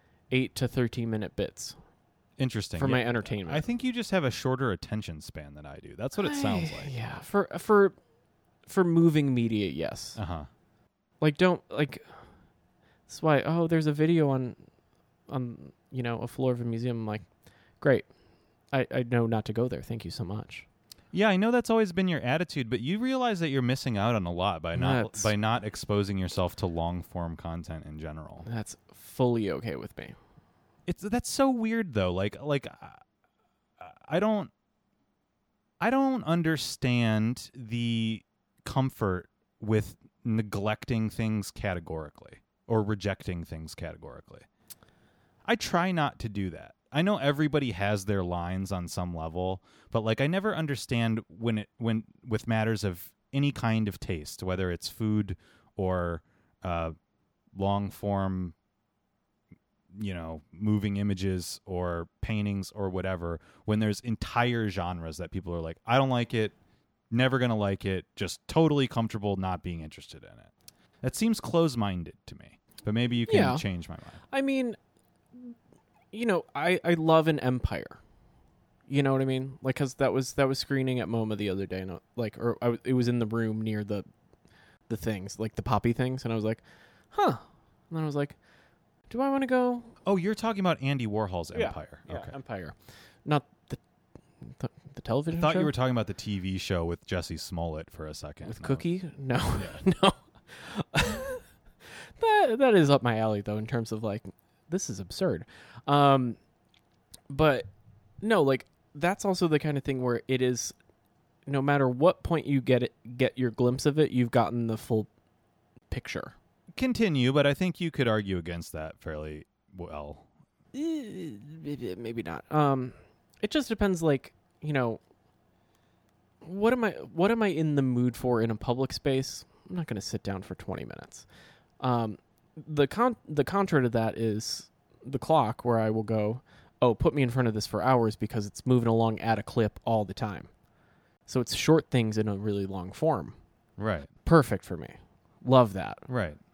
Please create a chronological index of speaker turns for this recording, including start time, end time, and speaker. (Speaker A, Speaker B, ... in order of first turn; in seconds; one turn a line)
Speaker A: 0.3-1.8
Speaker B: 2.4-6.9
Speaker A: 2.8-3.6
Speaker A: 6.2-8.0
Speaker A: 8.7-10.2
Speaker B: 10.2-10.5
Speaker A: 11.2-12.1
Speaker A: 13.1-14.6
Speaker A: 15.3-17.3
Speaker A: 17.8-18.1
Speaker A: 18.7-20.7
Speaker B: 21.1-28.5
Speaker A: 24.8-25.3
Speaker A: 28.5-30.2
Speaker B: 30.9-33.0
Speaker B: 33.8-34.5
Speaker B: 35.8-44.5
Speaker B: 45.5-56.9
Speaker B: 57.5-58.5
Speaker B: 59.9-66.5
Speaker B: 67.1-70.5
Speaker B: 71.0-74.2
Speaker A: 73.3-73.6
Speaker A: 74.3-74.8
Speaker A: 76.1-78.0
Speaker A: 78.9-84.1
Speaker A: 84.9-88.4
Speaker A: 89.1-89.9
Speaker B: 90.0-92.3
Speaker A: 91.5-93.8
Speaker A: 94.5-95.7
Speaker B: 95.3-98.8
Speaker A: 98.5-106.4
Speaker B: 99.5-99.8
Speaker A: 107.3-107.7
Speaker A: 108.2-110.7
Speaker A: 111.5-115.1
Speaker A: 115.9-116.3
Speaker B: 116.8-120.3
Speaker A: 120.7-125.0
Speaker A: 126.4-131.3
Speaker A: 131.8-140.5
Speaker A: 141.3-143.4
Speaker B: 143.8-144.1
Speaker A: 144.2-146.1
Speaker B: 146.1-146.4